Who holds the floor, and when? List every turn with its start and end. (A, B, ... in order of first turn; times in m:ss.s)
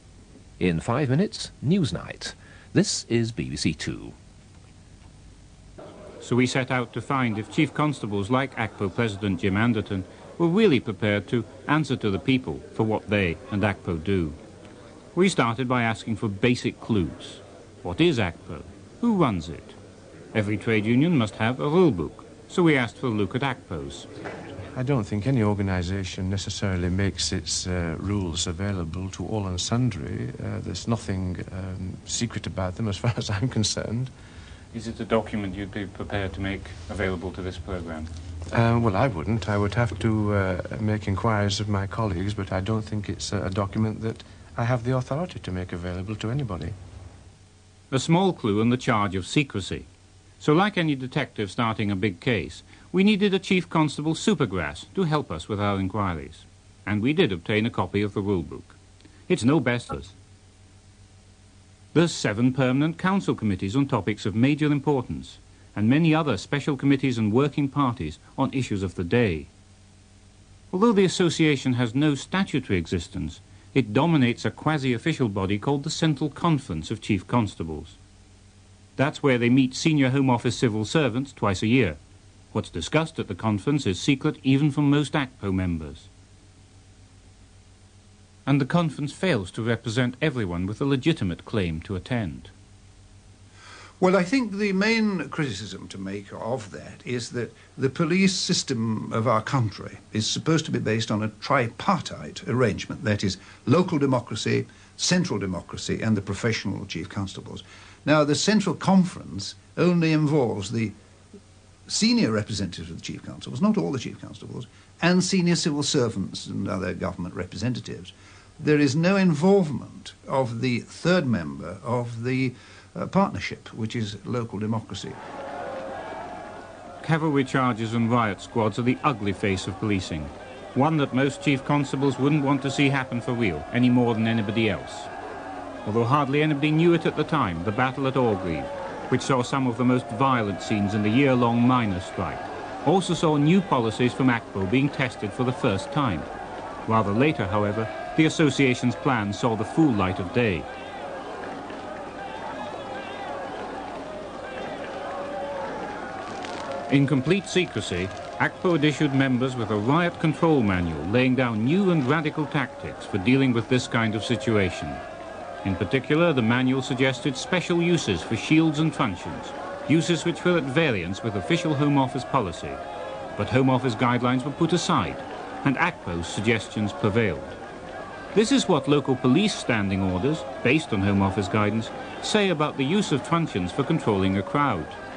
0:00.6-0:04.1 A
0:06.2-0:14.4 B
0:15.1-0:19.8 B
0:20.3-0:24.1 B
0:24.7-0:34.1 C
0:34.7-0:38.1 B
0:38.5-0:46.8 C
0:47.9-0:49.9 B
0:50.4-0:58.8 B
0:59.3-1:00.1 B
1:01.9-1:09.5 B
1:10.7-1:18.0 B
1:19.0-1:22.0 B
1:22.5-1:26.1 B
1:28.4-1:32.5 B
1:34.0-1:51.0 D
1:51.9-2:05.2 D
2:07.0-2:15.1 B
2:15.8-2:26.3 B
2:26.8-2:30.7 B
2:36.9-2:45.0 B
2:45.6-2:52.8 B
2:53.4-2:57.6 B
2:58.3-3:05.0 B